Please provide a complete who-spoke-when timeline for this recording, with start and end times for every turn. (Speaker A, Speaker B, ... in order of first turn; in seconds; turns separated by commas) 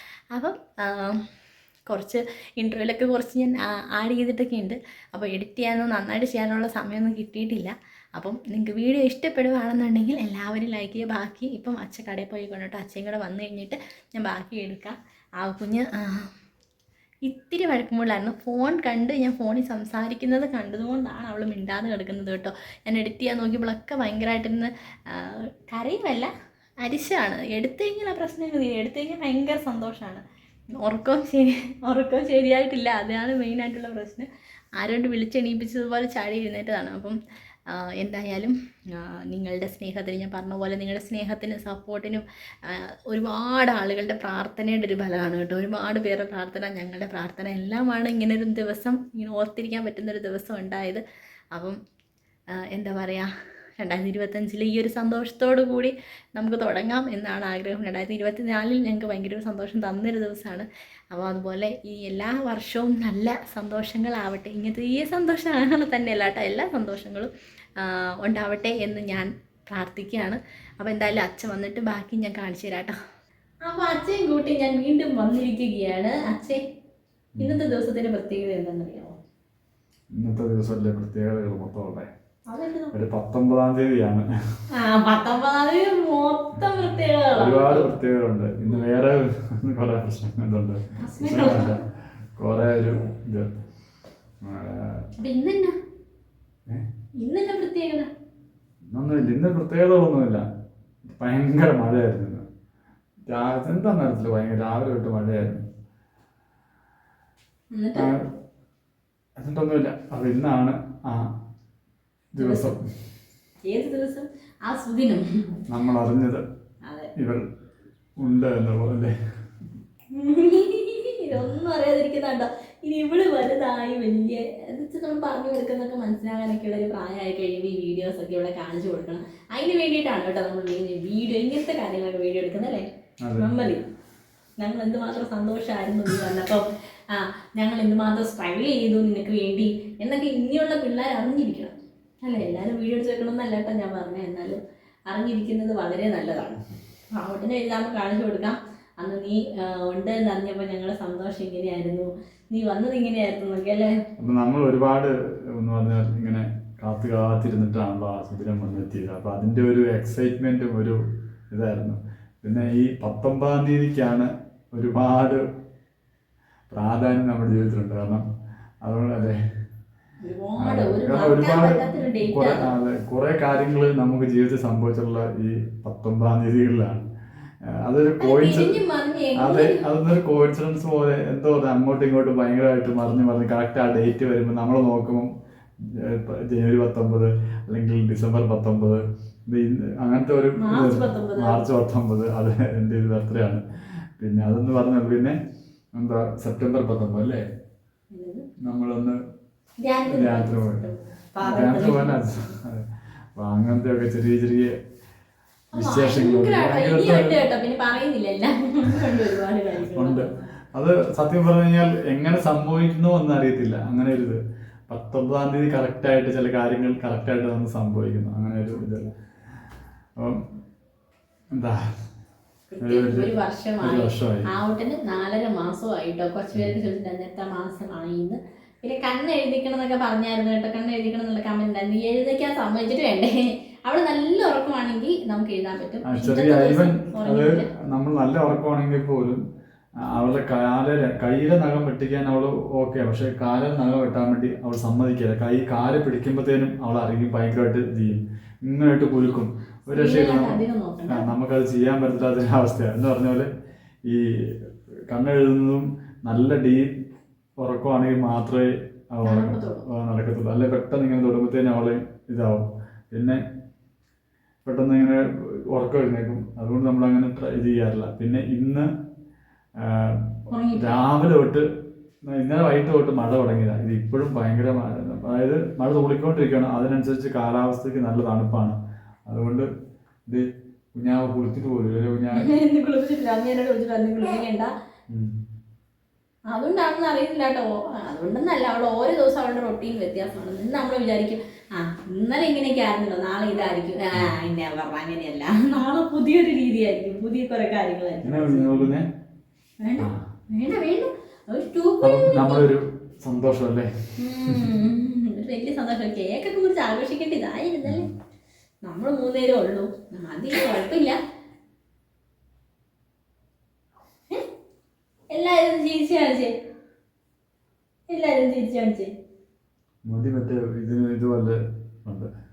Speaker A: 0.3-1.2, Speaker A: 1.9-16.3, Speaker A: 17.2-26.3, Speaker A: 26.8-30.2, Speaker A: 30.8-37.2, Speaker A: 37.7-51.8, Speaker A: 52.7-72.9, Speaker A: 73.6-76.6, Speaker A: 77.4-79.1, Speaker B: 80.2-82.1, Speaker A: 82.5-82.9, Speaker B: 82.9-84.3, Speaker A: 84.7-88.0, Speaker B: 87.3-91.8, Speaker A: 91.0-91.8, Speaker B: 92.4-93.6, Speaker B: 94.4-95.1, Speaker A: 95.2-95.8, Speaker A: 97.2-98.1, Speaker B: 98.9-100.4, Speaker B: 101.2-102.4, Speaker B: 103.3-105.6, Speaker A: 107.7-108.1, Speaker B: 107.9-108.3, Speaker B: 109.4-111.3, Speaker B: 112.3-112.8, Speaker A: 112.4-112.7, Speaker A: 113.7-115.6, Speaker B: 115.7-116.4, Speaker A: 116.9-117.1, Speaker B: 117.2-117.4, Speaker B: 118.2-119.1, Speaker A: 120.1-133.8, Speaker B: 133.2-133.5, Speaker A: 134.6-146.6, Speaker A: 147.1-153.9, Speaker B: 154.2-161.0, Speaker B: 161.5-165.4, Speaker B: 166.7-168.2, Speaker B: 168.8-169.4, Speaker A: 170.2-172.7, Speaker B: 170.6-177.1, Speaker B: 177.8-178.8, Speaker A: 178.2-179.8, Speaker B: 179.4-185.3, Speaker B: 185.9-193.6, Speaker A: 190.6-191.6, Speaker B: 194.2-195.4, Speaker B: 195.9-197.4, Speaker A: 198.1-198.4, Speaker B: 198.6-199.2, Speaker A: 199.8-202.2, Speaker B: 200.1-200.9, Speaker B: 201.4-204.7, Speaker A: 205.7-210.5, Speaker B: 205.7-207.4, Speaker B: 209.9-219.1, Speaker A: 218.7-219.1, Speaker B: 220.2-220.4, Speaker B: 221.5-221.8, Speaker A: 222.7-237.7, Speaker B: 222.8-224.5, Speaker B: 236.0-239.4, Speaker B: 240.1-253.5, Speaker A: 249.9-251.3, Speaker B: 254.1-256.9, Speaker B: 257.6-263.4, Speaker A: 259.2-259.8, Speaker B: 264.6-268.9, Speaker B: 269.8-271.6, Speaker A: 270.5-270.9, Speaker B: 272.2-278.8, Speaker B: 279.3-279.7, Speaker B: 280.3-282.5, Speaker A: 282.3-284.7, Speaker A: 286.5-298.9, Speaker B: 298.2-299.1, Speaker A: 299.8-302.7, Speaker B: 302.0-304.8, Speaker A: 304.2-308.1, Speaker B: 307.8-308.1, Speaker A: 308.8-311.2, Speaker A: 315.3-316.5, Speaker A: 318.1-319.1, Speaker B: 320.1-322.3